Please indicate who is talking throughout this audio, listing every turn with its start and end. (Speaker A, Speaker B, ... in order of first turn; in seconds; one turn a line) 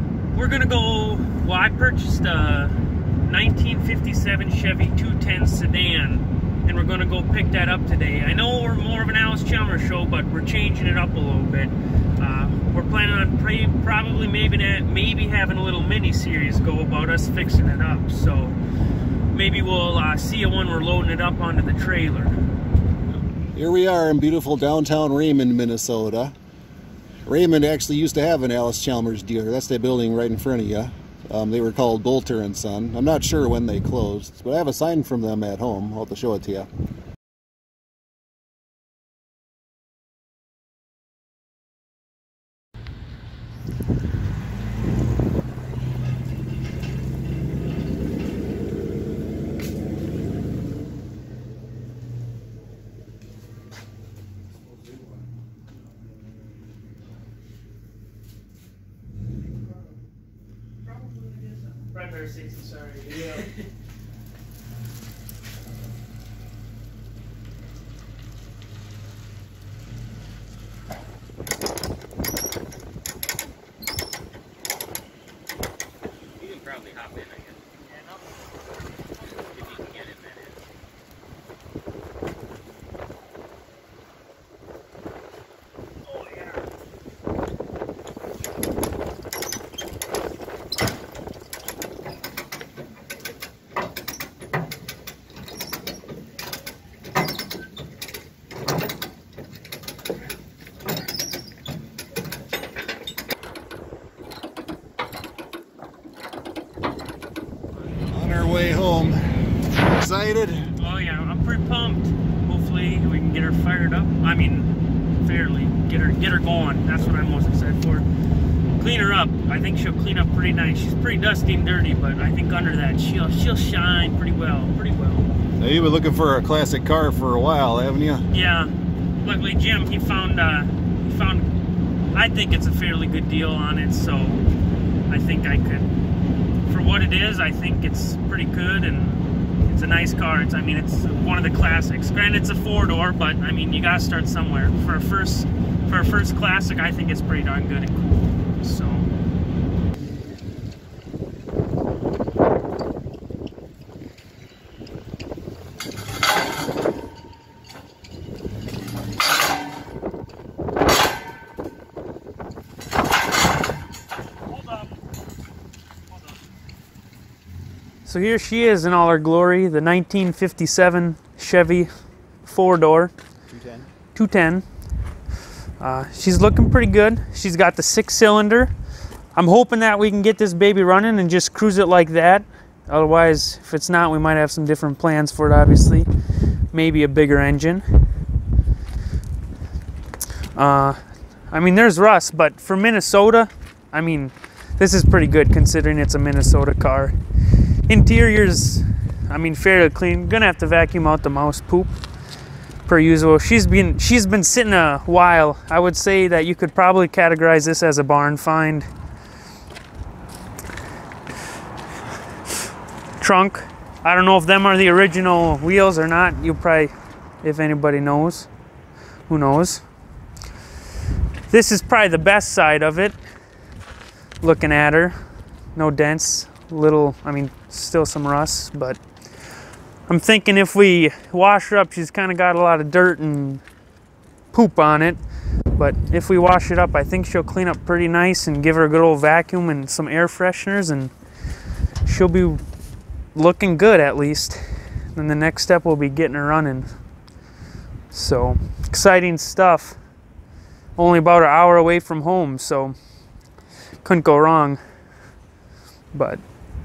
Speaker A: 0.3-18.6
Speaker A: 19.3-22.4
Speaker B: 23.6-26.3
Speaker B: 27.2-36.7
Speaker A: 60.9-63.6
Speaker C: 76.4-77.6
Speaker C: 79.4-80.5
Speaker B: 108.0-110.7
Speaker A: 110.8-118.1
Speaker A: 118.8-125.3
Speaker B: 125.6-128.2
Speaker A: 128.3-128.7
Speaker A: 129.2-131.5
Speaker A: 132.1-134.4
Speaker A: 135.1-135.9
Speaker A: 136.6-149.1
Speaker A: 168.1-171.9
Speaker A: 172.4-173.1
Speaker B: 173.5-173.8
Speaker A: 174.2-174.7
Speaker A: 175.8-178.7
Speaker A: 179.3-186.1
Speaker A: 186.7-188.1
Speaker A: 190.5-201.9
Speaker A: 202.9-208.9
Speaker A: 213.2-218.5
Speaker A: 219.3-219.8
Speaker A: 221.5-223.2
Speaker A: 224.4-225.2
Speaker A: 225.7-229.0
Speaker A: 230.1-233.6
Speaker A: 234.5-235.2
Speaker A: 235.7-241.1
Speaker A: 242.0-242.6
Speaker A: 243.3-247.0
Speaker A: 248.1-250.0
Speaker A: 250.9-252.9
Speaker A: 254.0-254.8
Speaker A: 256.1-256.4